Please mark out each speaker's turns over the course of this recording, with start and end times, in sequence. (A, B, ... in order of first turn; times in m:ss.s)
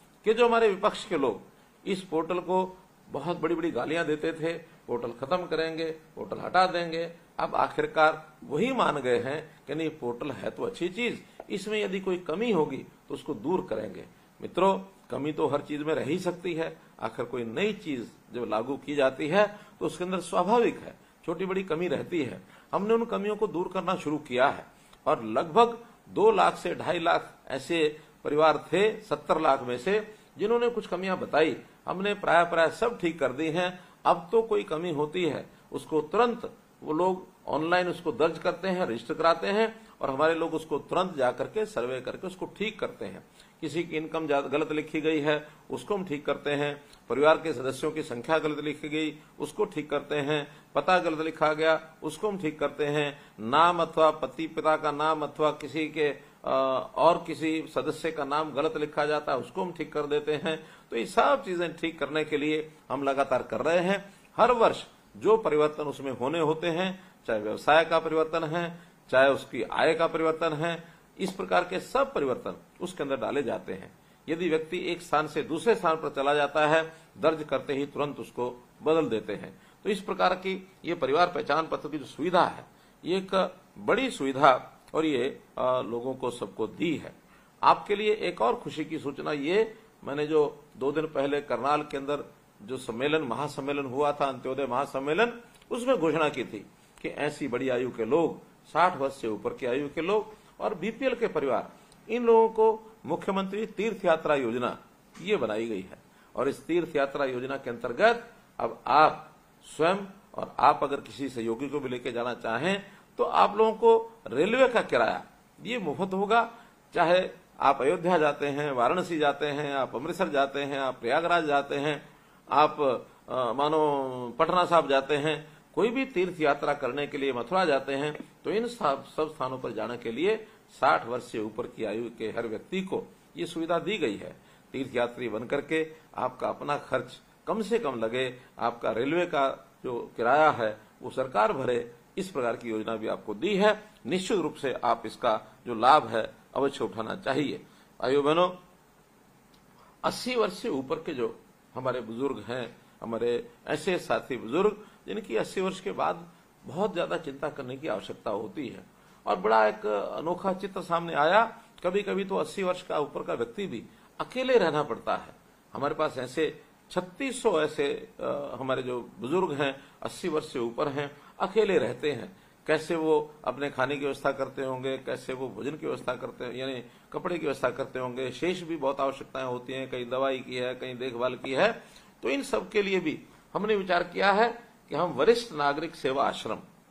0:00.2-2:28.6 A
2:30.0-3:06.6 A